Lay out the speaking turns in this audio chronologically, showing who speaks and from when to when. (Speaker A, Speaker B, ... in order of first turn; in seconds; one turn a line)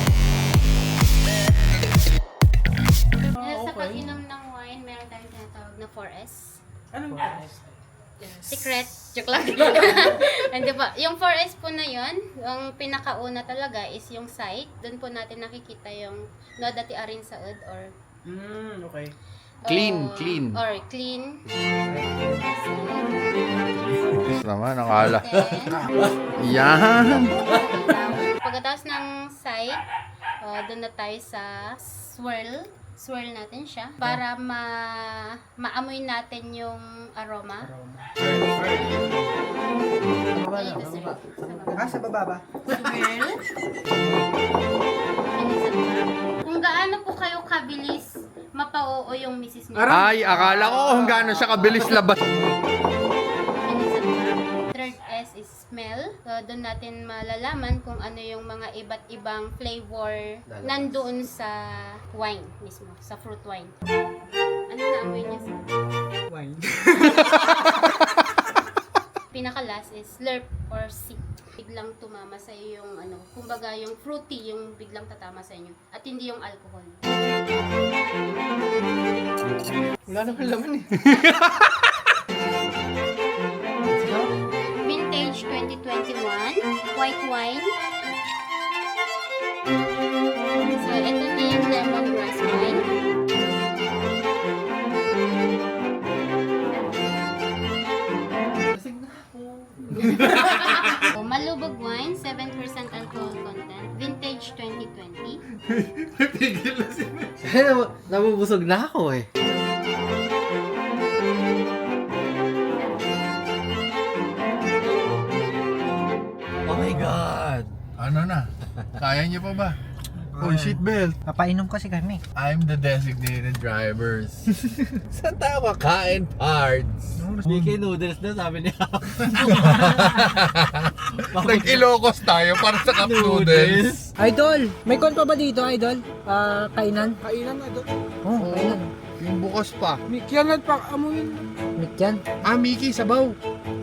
Speaker A: 3.3-4.1
Speaker B: 3.4-6.6
Speaker A: 6.9-7.7
Speaker B: 8.2-17.9
Speaker A: 9.7-10.1
Speaker A: 18.2-19.1
Speaker B: 19.6-21.4
Speaker C: 19.6-20.6
Speaker D: 21.9-22.5
Speaker B: 22.4-23.2
Speaker C: 24.1-25.3
Speaker B: 25.0-25.8
Speaker E: 25.3-26.1
Speaker B: 26.4-29.8
Speaker C: 26.4-27.4
Speaker B: 30.4-37.7
Speaker D: 37.6-38.0
Speaker C: 38.2-39.2
Speaker E: 40.3-42.0
Speaker B: 40.3-41.9
Speaker D: 41.8-42.8
Speaker B: 42.6-43.4
Speaker B: 45.3-50.6
Speaker A: 49.8-51.3
Speaker C: 49.9-52.2
Speaker B: 53.6-61.6
Speaker E: 60.5-61.0
Speaker B: 62.1-63.7
Speaker B: 64.7-65.6
Speaker D: 66.3-67.7
Speaker B: 69.3-77.0
Speaker E: 80.1-81.3
Speaker E: 83.9-84.3
Speaker B: 84.8-87.7
Speaker B: 90.6-92.9
Speaker E: 98.5-100.8
Speaker B: 100.1-105.4
Speaker E: 105.7-109.3
Speaker E: 116.7-117.7
Speaker C: 118.0-119.8
Speaker D: 120.3-122.2
Speaker C: 120.4-121.2
Speaker C: 122.3-124.5
Speaker C: 125.1-127.2
Speaker D: 127.2-127.8
Speaker E: 127.4-130.2
Speaker C: 129.5-134.0
Speaker E: 131.2-131.9
Speaker E: 132.7-134.1
Speaker D: 134.2-137.2
Speaker A: 137.2-137.8
Speaker D: 138.2-138.9
Speaker C: 138.4-140.0
Speaker A: 140.1-141.3
Speaker D: 141.8-142.2
Speaker C: 142.4-143.3